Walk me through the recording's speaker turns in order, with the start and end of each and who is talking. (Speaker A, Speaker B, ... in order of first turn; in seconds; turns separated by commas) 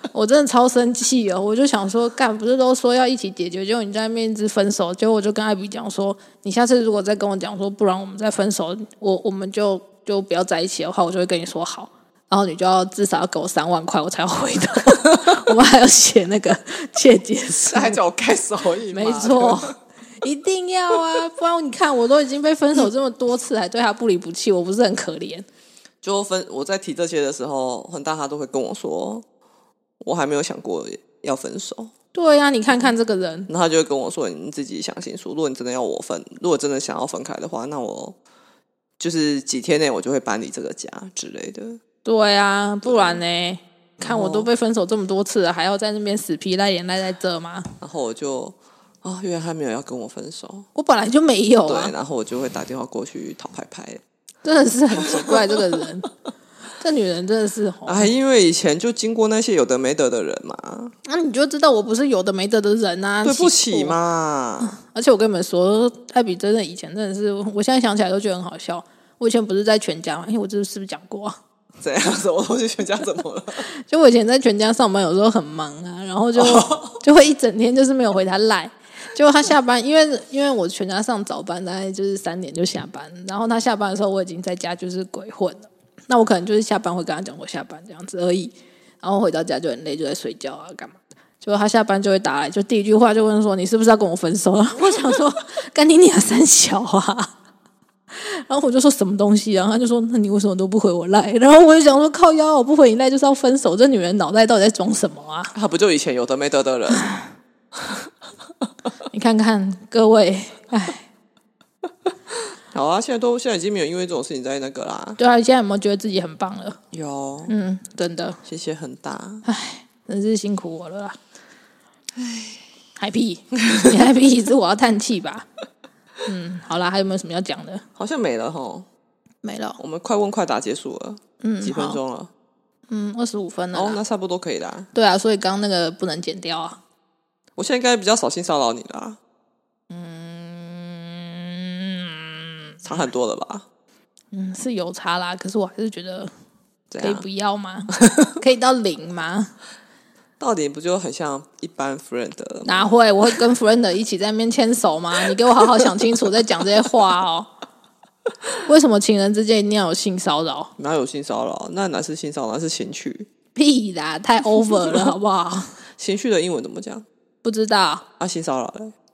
Speaker A: 0.1-18.0, Speaker B: 17.7-19.7, Speaker A: 18.9-25.4, Speaker B: 20.9-21.2, Speaker B: 26.0-29.2, Speaker B: 30.0-31.9, Speaker A: 32.1-33.5, Speaker B: 33.5-38.2, Speaker B: 39.0-41.8, Speaker A: 42.0-47.7, Speaker B: 42.8-43.2, Speaker B: 44.0-44.5, Speaker B: 47.8-50.7, Speaker A: 50.7-51.9, Speaker B: 51.6-54.0, Speaker A: 54.4-56.1, Speaker B: 55.0-55.6, Speaker A: 56.7-58.1, Speaker B: 57.9-60.9, Speaker A: 61.0-63.9, Speaker B: 63.2-64.8, Speaker A: 64.7-71.3, Speaker B: 71.8-73.7, Speaker A: 73.6-97.3, Speaker B: 76.3-77.0, Speaker A: 98.1-105.5, Speaker B: 105.5-107.1, Speaker A: 107.0-107.3, Speaker B: 107.8-108.1, Speaker A: 109.1-111.0, Speaker B: 112.3-115.2, Speaker A: 115.2-116.8, Speaker B: 116.9-117.5, Speaker A: 117.5-118.4, Speaker B: 118.4-119.4, Speaker A: 119.5-121.2, Speaker B: 122.2-122.6, Speaker A: 123.0-125.5, Speaker A: 126.2-127.8, Speaker B: 128.0-128.9, Speaker A: 129.4-129.8, Speaker B: 129.8-132.3, Speaker A: 131.4-132.0, Speaker A: 132.9-134.0, Speaker B: 133.7-134.9, Speaker A: 134.9-136.8, Speaker B: 137.6-139.2, Speaker A: 139.9-142.9, Speaker B: 142.8-143.7, Speaker A: 144.3-146.3, Speaker B: 146.9-147.2, Speaker A: 147.0-149.5, Speaker B: 150.4-152.9, Speaker A: 152.7-157.5, Speaker A: 158.6-160.7, Speaker B: 160.8-163.3, Speaker A: 163.5-165.8, Speaker B: 166.0-167.1, Speaker A: 167.4-168.0, Speaker B: 168.2-168.9